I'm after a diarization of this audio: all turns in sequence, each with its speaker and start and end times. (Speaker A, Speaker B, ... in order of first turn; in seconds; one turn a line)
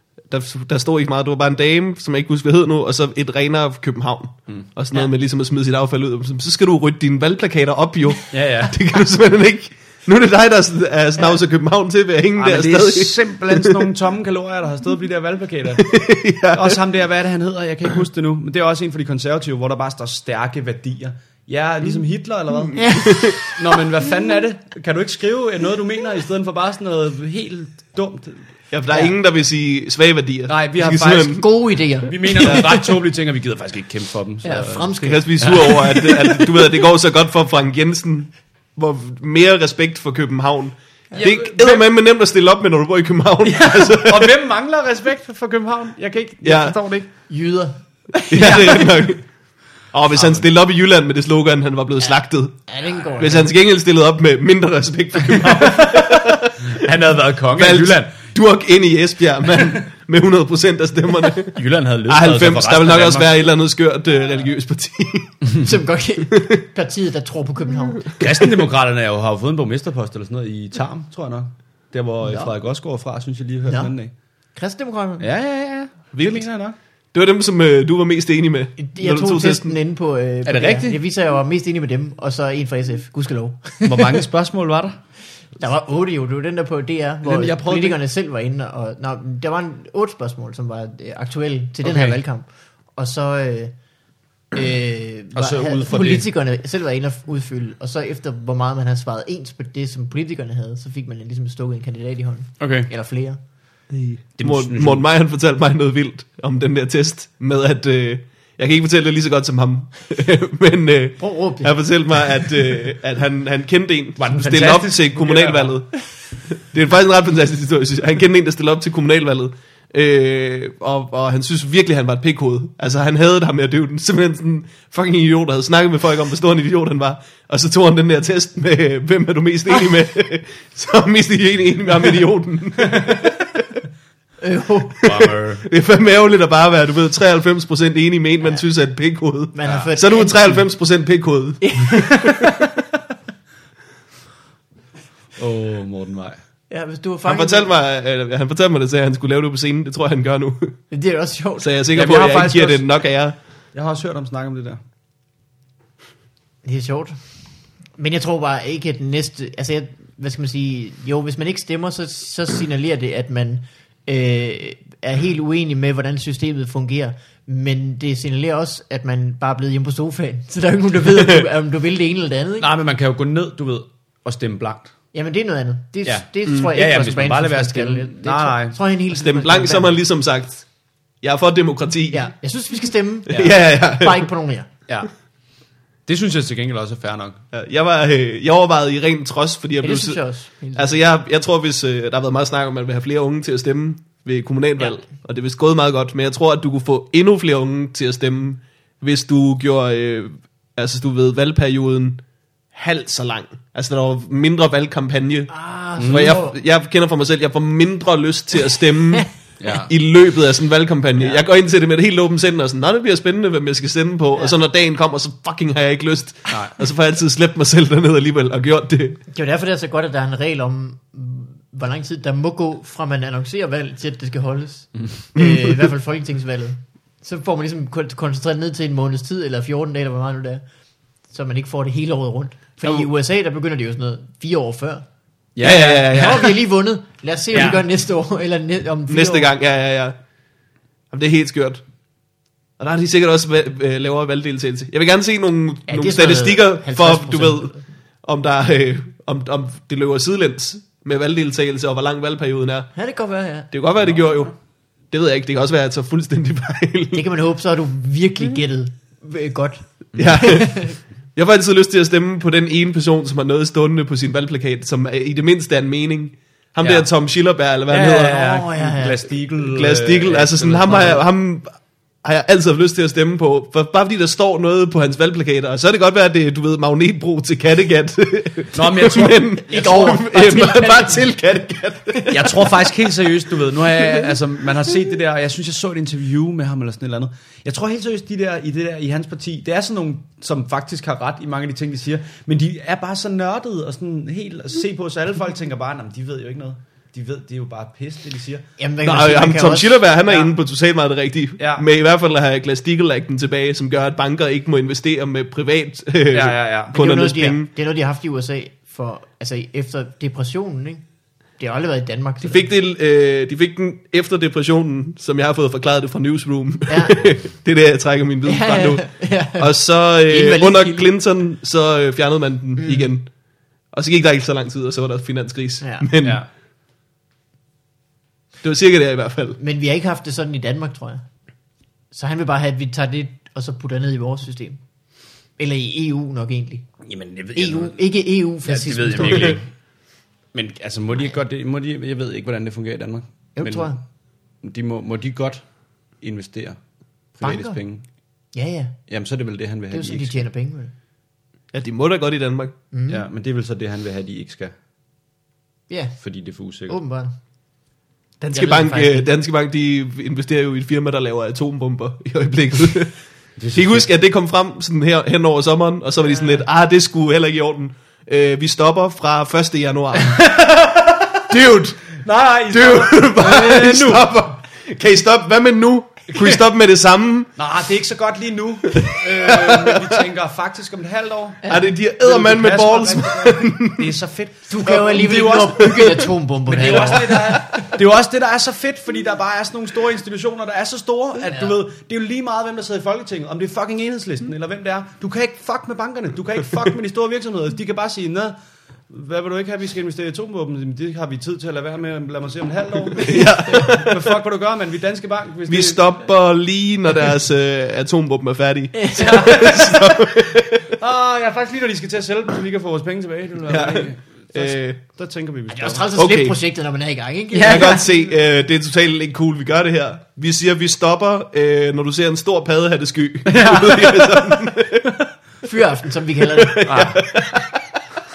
Speaker A: 0.2-13.9
Speaker B: 8.3-8.7
Speaker B: 12.4-15.9
Speaker A: 15.8-16.8
Speaker B: 16.5-22.8
Speaker A: 22.7-23.4
Speaker C: 22.7-23.5
Speaker B: 23.4-28.4
Speaker A: 28.7-31.4
Speaker B: 30.5-31.4
Speaker C: 31.4-32.9
Speaker B: 32.1-36.5
Speaker C: 34.4-35.2
Speaker A: 35.0-44.3
Speaker B: 41.1-41.8
Speaker B: 43.4-47.1
Speaker A: 46.4-46.8
Speaker C: 47.3-48.9
Speaker A: 48.3-49.2
Speaker B: 48.4-48.6
Speaker A: 49.9-52.6
Speaker B: 50.1-50.5
Speaker C: 52.7-53.5
Speaker A: 53.2-56.7
Speaker B: 55.3-58.1
Speaker A: 57.5-65.5
Speaker B: 61.5-63.4
Speaker C: 65.6-68.1
Speaker B: 68.2-74.1
Speaker C: 72.2-72.5
Speaker C: 73.7-73.9
Speaker C: 74.5-75.3
Speaker B: 75.2-76.8
Speaker A: 76.1-76.5
Speaker A: 77.1-79.7
Speaker C: 78.8-84.2
Speaker B: 80.5-81.0
Speaker B: 83.8-85.0
Speaker C: 85.6-93.7
Speaker B: 87.2-88.0
Speaker B: 91.8-92.2
Speaker C: 94.5-103.4
Speaker B: 95.3-96.2
Speaker B: 102.6-102.9
Speaker A: 103.9-133.6
Speaker B: 104.4-105.0
Speaker C: 111.2-111.7
Speaker B: 114.2-115.8
Speaker C: 134.4-135.1
Speaker B: 135.0-135.6
Speaker A: 135.6-142.5
Speaker C: 139.5-140.6
Speaker C: 141.6-142.5
Speaker B: 145.4-146.4
Speaker C: 146.7-147.7
Speaker A: 147.2-150.8
Speaker C: 150.9-151.7
Speaker A: 151.6-153.3
Speaker B: 151.9-152.8
Speaker B: 153.7-154.8
Speaker C: 156.6-157.2
Speaker C: 158.0-172.7
Speaker B: 172.6-174.9
Speaker C: 175.1-179.9
Speaker B: 176.0-178.8
Speaker A: 179.1-180.7
Speaker A: 181.2-182.3
Speaker C: 182.1-184.7
Speaker A: 183.3-184.3
Speaker B: 183.3-183.6
Speaker B: 186.1-187.4
Speaker A: 187.5-190.2
Speaker C: 189.8-191.0
Speaker A: 190.7-202.2
Speaker A: 202.7-219.2
Speaker C: 205.5-206.6
Speaker B: 206.0-206.4
Speaker B: 209.6-209.9
Speaker B: 216.5-216.7
Speaker C: 219.3-230.6
Speaker A: 225.3-225.9
Speaker C: 231.3-235.0
Speaker B: 235.5-236.5
Speaker A: 235.6-236.4
Speaker C: 236.1-239.5
Speaker B: 237.5-237.8
Speaker A: 239.1-240.1
Speaker A: 241.1-241.8
Speaker A: 242.8-252.9
Speaker C: 245.9-247.8
Speaker C: 252.9-253.7
Speaker A: 253.7-254.5
Speaker A: 255.1-257.2
Speaker C: 257.1-260.9
Speaker A: 260.1-268.4
Speaker B: 266.8-267.1
Speaker B: 267.9-271.2
Speaker C: 268.2-269.2
Speaker A: 269.7-282.6
Speaker B: 278.7-279.9
Speaker C: 279.7-281.3
Speaker C: 282.1-282.4
Speaker B: 282.3-298.6
Speaker C: 298.8-300.0
Speaker A: 299.0-307.7
Speaker B: 301.6-301.9
Speaker B: 306.3-306.9
Speaker C: 306.9-311.0
Speaker C: 311.6-312.7
Speaker A: 312.4-323.3
Speaker C: 316.9-317.2
Speaker C: 318.4-321.1
Speaker C: 322.8-323.1
Speaker A: 323.9-326.4
Speaker C: 325.8-326.1
Speaker B: 326.2-326.4
Speaker A: 328.6-329.6
Speaker C: 329.6-331.2
Speaker C: 332.1-334.8
Speaker C: 335.6-336.9
Speaker B: 337.0-338.0
Speaker C: 337.5-339.6
Speaker B: 338.6-339.7
Speaker B: 340.5-344.0
Speaker C: 343.5-344.0
Speaker B: 344.6-345.6
Speaker B: 346.2-346.8
Speaker B: 347.3-348.0
Speaker C: 347.4-347.8
Speaker C: 348.5-349.0
Speaker B: 349.1-350.4
Speaker C: 349.9-350.9
Speaker A: 351.7-352.7
Speaker C: 352.9-353.2
Speaker B: 353.1-354.7
Speaker C: 355.9-356.2
Speaker B: 356.2-357.0
Speaker C: 356.9-357.3
Speaker A: 358.4-363.2
Speaker C: 358.5-359.3
Speaker B: 363.6-364.1
Speaker A: 363.7-370.5
Speaker C: 366.2-366.6
Speaker A: 371.4-377.5
Speaker B: 372.2-374.3
Speaker B: 376.3-376.6
Speaker B: 377.6-386.1
Speaker A: 379.0-380.2
Speaker C: 381.6-381.9
Speaker A: 381.7-384.1
Speaker C: 384.7-387.8
Speaker A: 385.8-386.2
Speaker B: 386.7-398.6
Speaker A: 386.9-387.6
Speaker B: 399.1-406.0
Speaker C: 403.2-403.9
Speaker A: 403.2-404.2
Speaker A: 405.7-410.9
Speaker C: 408.9-409.8
Speaker B: 409.3-409.9
Speaker B: 411.0-416.1
Speaker A: 413.7-415.0
Speaker C: 415.7-418.1
Speaker A: 416.1-416.6
Speaker B: 417.5-418.2
Speaker A: 417.6-425.1
Speaker B: 423.5-424.5
Speaker C: 425.6-427.1
Speaker A: 426.6-427.7
Speaker B: 426.9-427.3